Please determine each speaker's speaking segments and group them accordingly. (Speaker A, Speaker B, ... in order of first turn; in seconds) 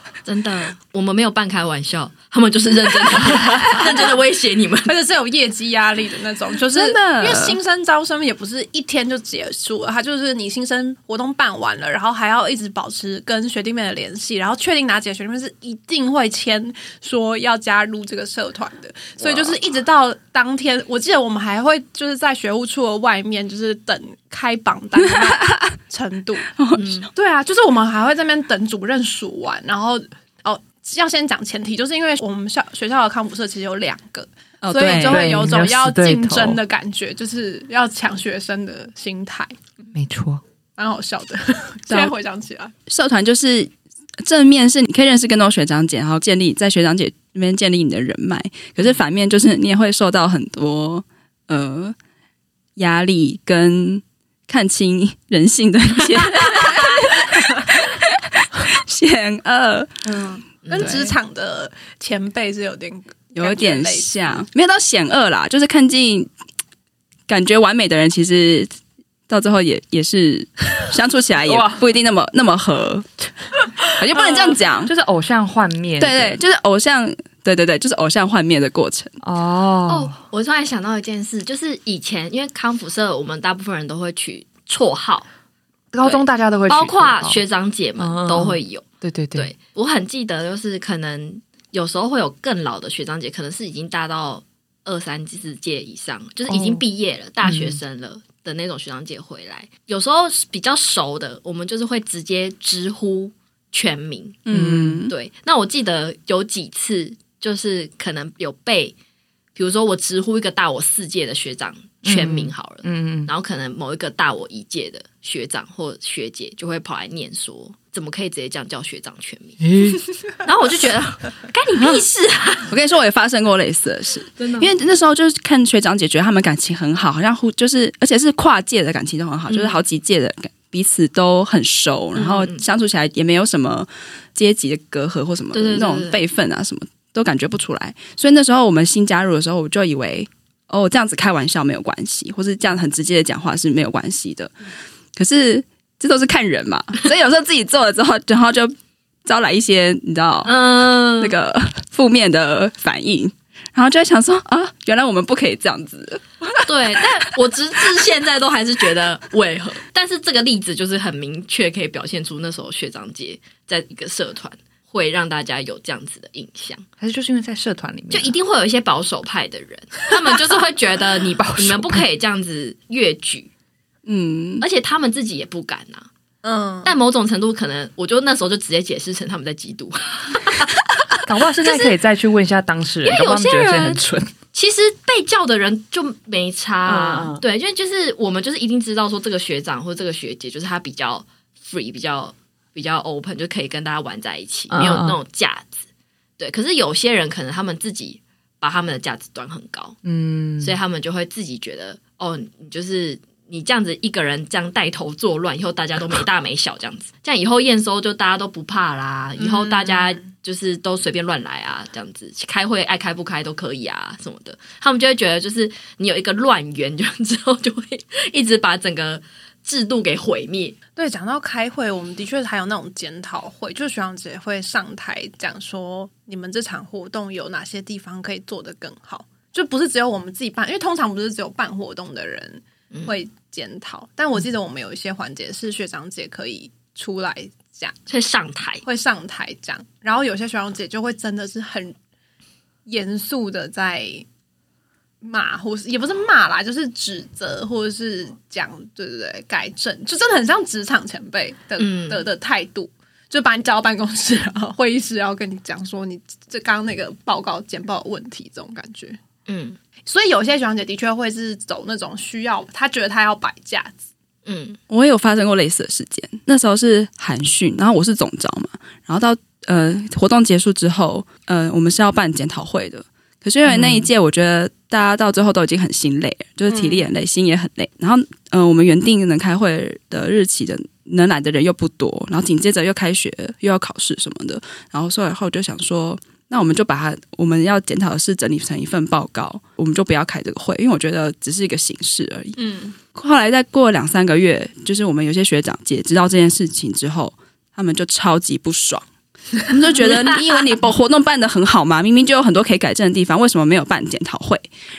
Speaker A: 0.2-4.9, 26.8-27.1, 60.6-61.0, 79.9-85.3, 86.0-104.4, 105.1-108.9, 109.5-122.7, 124.4-124.7, 129.5-129.8, 132.2-132.6, 135.5-136.2, 150.4-151.3, 156.6-166.8, 168.1-173.5, 174.6-176.1, 176.8-180.7, 181.6-181.9, 183.0-195.8, 196.4-200.0, 200.6-220.8, 238.1-238.8, 251.8-252.2, 259.5-259.8, 264.4-264.8
Speaker B: 3.7-4.0, 4.8-26.5, 27.1-39.5, 40.8-42.7, 60.1-64.4, 176.4-176.9, 209.4-210.2, 220.9-237.9, 238.8-241.9, 242.8-244.2, 245.2-259.2, 260.1-264.0, 276.7-277.0, 292.6-292.9
Speaker C: 6.7-7.6, 25.2-25.6, 26.6-27.1, 34.6-35.4, 42.9-51.9, 52.8-60.0, 63.3-66.3, 67.3-68.7, 69.3-73.3, 73.9-74.9, 76.0-79.1, 104.4-105.1, 122.7-144.5, 145.2-150.5, 151.2-157.0, 174.1-174.6, 264.9-292.6, 293.1-299.0, 299.6-304.7
Speaker D: 34.8-36.6, 39.9-40.4, 71.4-71.8, 74.1-76.4, 79.2-80.1, 85.9-87.4, 88.0-89.5, 96.5-96.8, 97.4-97.8, 104.5-105.1, 112.0-113.3, 119.6-120.0, 167.0-168.3, 171.1-172.0, 181.2-184.3, 186.8-187.4, 194.7-195.2, 200.0-200.8, 273.6-274.1